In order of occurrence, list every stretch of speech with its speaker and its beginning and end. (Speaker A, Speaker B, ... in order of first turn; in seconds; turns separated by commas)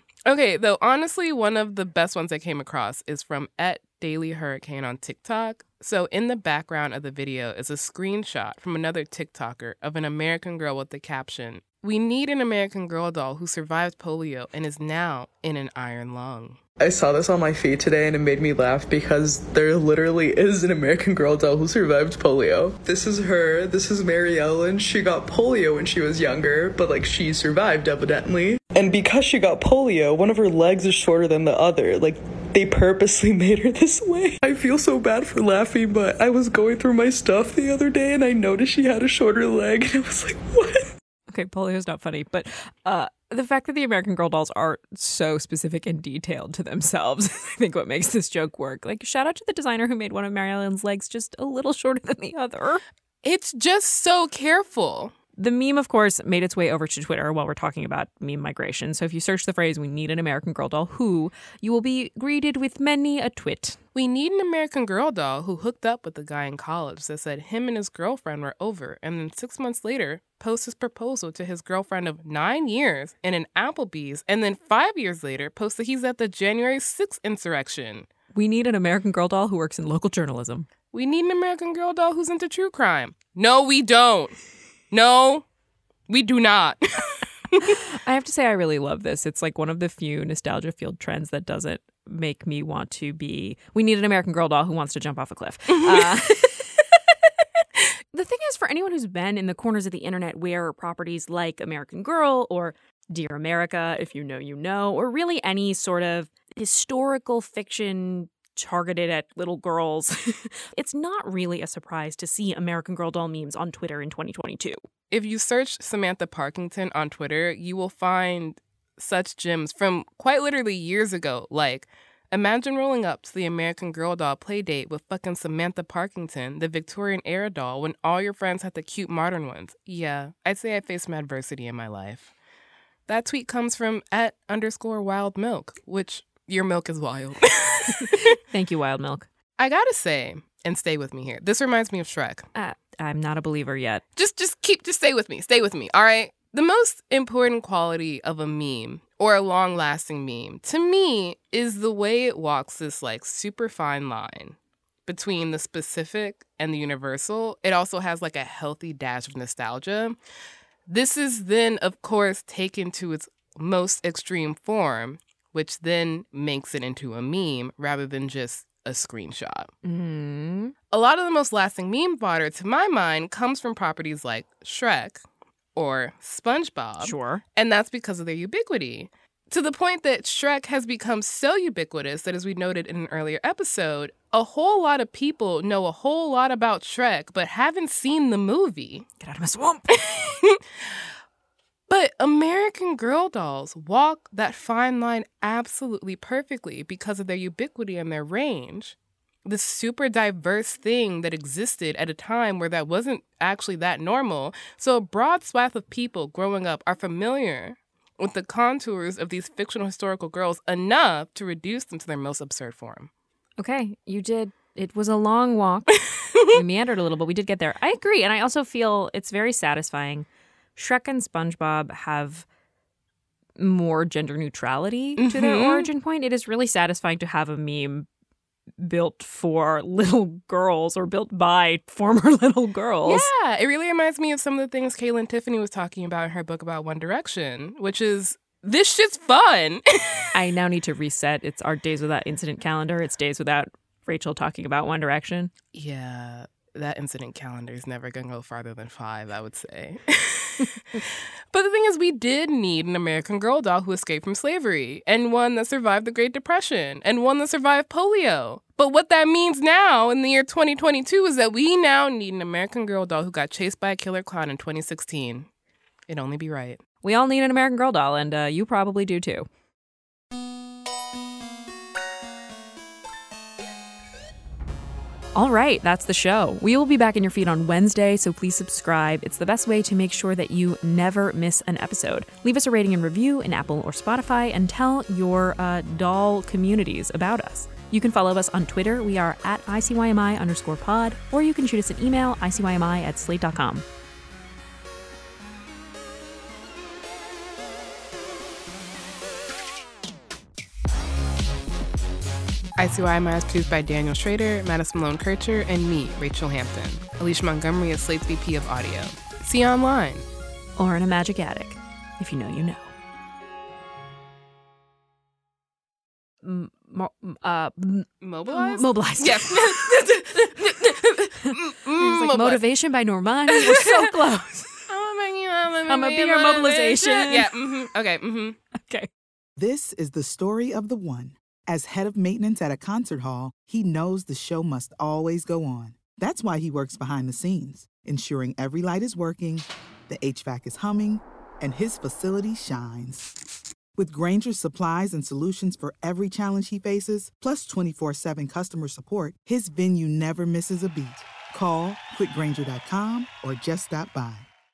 Speaker A: 0.2-16.6, Speaker B: 16.8-40.9, Speaker C: 41.3-52.8, Speaker A: 53.2-55.1, Speaker C: 55.4-63.8, Speaker A: 63.9-78.1, Speaker C: 78.3-80.7, Speaker A: 80.9-84.4, Speaker A: 84.9-85.4, Speaker A: 86.1-87.7, Speaker C: 87.6-96.7, Speaker C: 98.1-114.8, Speaker A: 115.1-132.3, Speaker A: 133.1-138.3, Speaker C: 138.0-139.3, Speaker A: 139.6-142.5, Speaker C: 142.5-144.0, Speaker A: 144.2-160.2, Speaker A: 160.9-169.7, Speaker C: 169.8-170.7, Speaker A: 170.9-175.2, Speaker A: 175.8-189.1, Speaker C: 177.0-177.4, Speaker C: 189.2-189.9, Speaker A: 189.9-190.6, Speaker A: 191.9-213.1, Speaker C: 213.6-216.0, Speaker A: 216.1-216.4, Speaker C: 216.5-222.4, Speaker C: 223.6-228.1, Speaker A: 225.2-225.9, Speaker C: 228.8-233.3, Speaker A: 233.1-240.2, Speaker C: 240.3-245.5, Speaker A: 245.7-265.5, Speaker A: 266.1-266.8, Speaker C: 267.0-269.5, Speaker C: 275.3-293.8, Speaker A: 302.8-310.2, Speaker C: 310.8-312.9, Speaker C: 316.4-320.6, Speaker A: 318.2-322.6, Speaker C: 321.4-324.8, Speaker A: 323.5-324.1, Speaker A: 324.9-328.6, Speaker C: 325.9-327.5, Speaker C: 328.8-329.1, Speaker D: 329.6-343.3, Speaker D: 343.9-354.5